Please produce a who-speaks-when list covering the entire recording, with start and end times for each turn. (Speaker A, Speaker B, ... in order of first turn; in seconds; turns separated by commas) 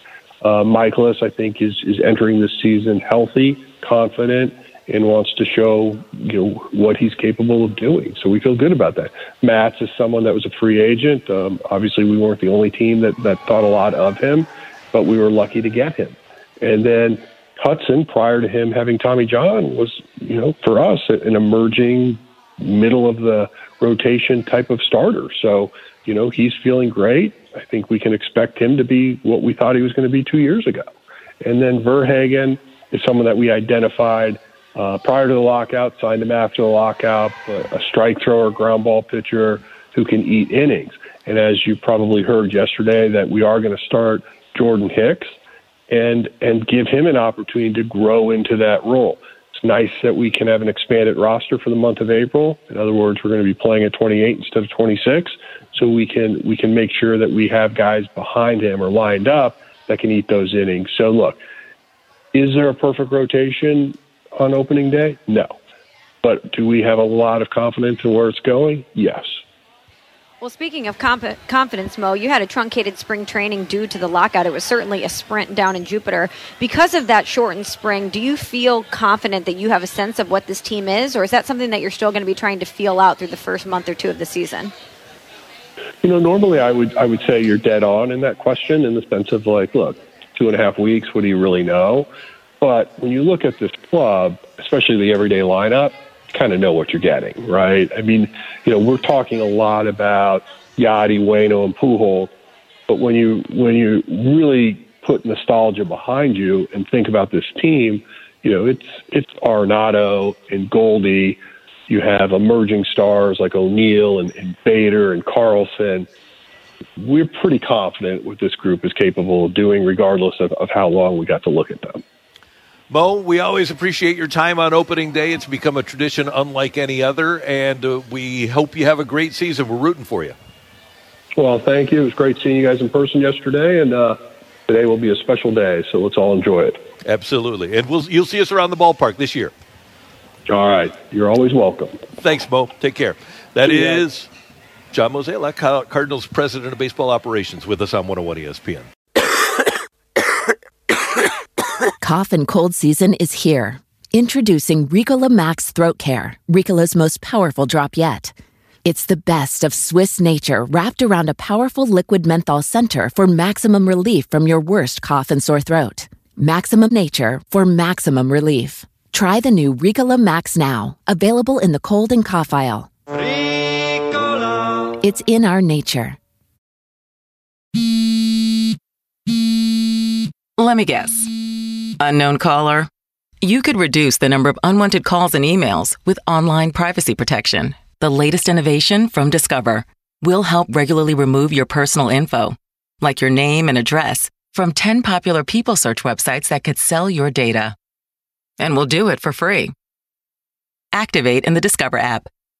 Speaker A: 0.4-30.9, Speaker A: 31.4-45.3, Speaker A: 45.9-61.4, Speaker A: 62.3-65.5, Speaker A: 66.2-69.4, Speaker B: 70.4-84.7, Speaker A: 86.0-92.1, Speaker A: 92.6-102.3, Speaker A: 102.9-116.1, Speaker A: 117.0-122.0, Speaker C: 122.9-130.3, Speaker A: 131.3-136.8, Speaker C: 137.0-139.5, Speaker A: 140.5-142.0, Speaker C: 142.2-144.3, Speaker C: 144.9-148.9, Speaker D: 152.0-172.9, Speaker D: 175.0-176.2, Speaker E: 180.6-181.3, Speaker E: 182.0-182.9, Speaker E: 183.4-197.8, Speaker E: 198.6-199.7, Speaker E: 200.9-202.3